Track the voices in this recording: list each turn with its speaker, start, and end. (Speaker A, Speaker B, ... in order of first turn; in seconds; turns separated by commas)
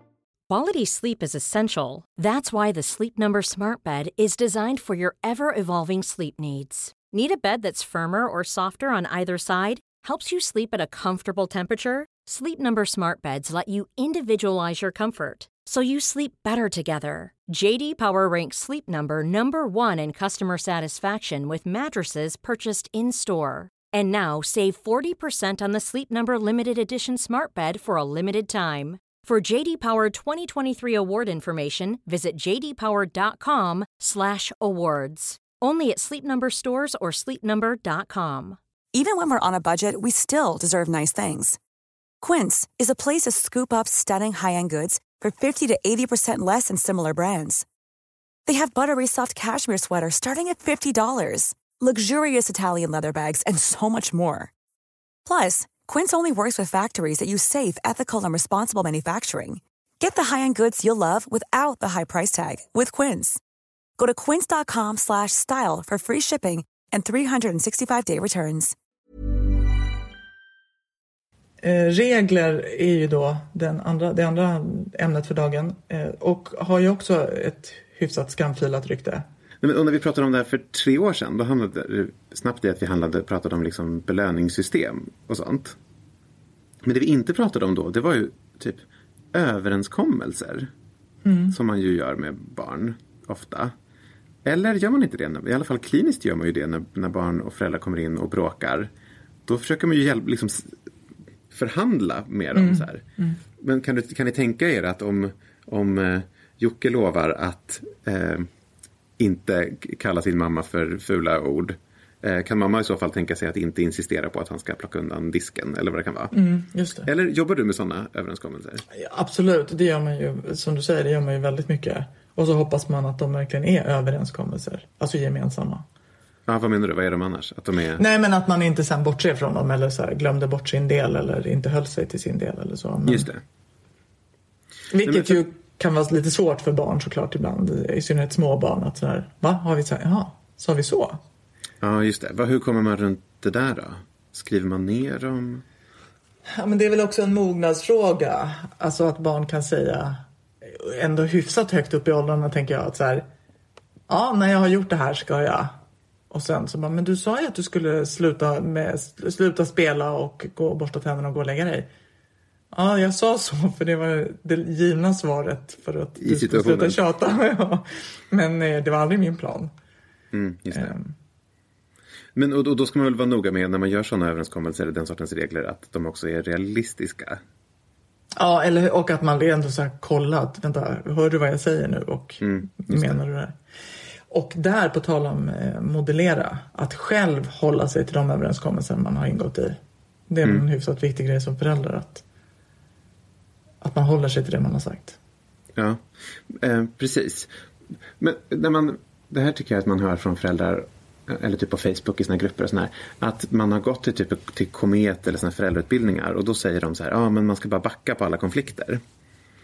Speaker A: 0.5-38.6, Speaker B: 38.9-41.6, Speaker B: 42.2-47.6, Speaker B: 48.5-54.5, Speaker B: 55.2-63.4, Speaker B: 64.0-68.7, Speaker C: 71.6-79.2, Speaker D: 79.6-85.8, Speaker D: 86.8-90.7, Speaker C: 91.2-91.5, Speaker D: 91.5-93.7, Speaker D: 94.4-98.9, Speaker D: 99.4-100.7, Speaker D: 101.5-103.0, Speaker C: 102.5-103.4, Speaker D: 103.6-108.5, Speaker D: 109.2-116.3, Speaker C: 116.3-117.1, Speaker D: 117.0-118.8, Speaker C: 118.9-125.8, Speaker D: 126.5-128.0, Speaker C: 128.0-133.3, Speaker D: 133.0-133.4, Speaker C: 134.9-141.2, Speaker D: 135.0-135.4, Speaker D: 141.8-145.6, Speaker C: 146.5-153.2, Speaker C: 154.1-155.8, Speaker C: 156.3-161.9, Speaker C: 162.7-169.7, Speaker D: 166.2-167.0, Speaker D: 170.3-170.9, Speaker C: 170.7-171.1, Speaker D: 172.3-177.4, Speaker C: 178.3-183.5, Speaker D: 182.4-183.2, Speaker C: 184.3-189.8, Speaker C: 190.3-192.2, Speaker C: 193.8-195.2, Speaker D: 195.8-197.5, Speaker D: 198.2-209.0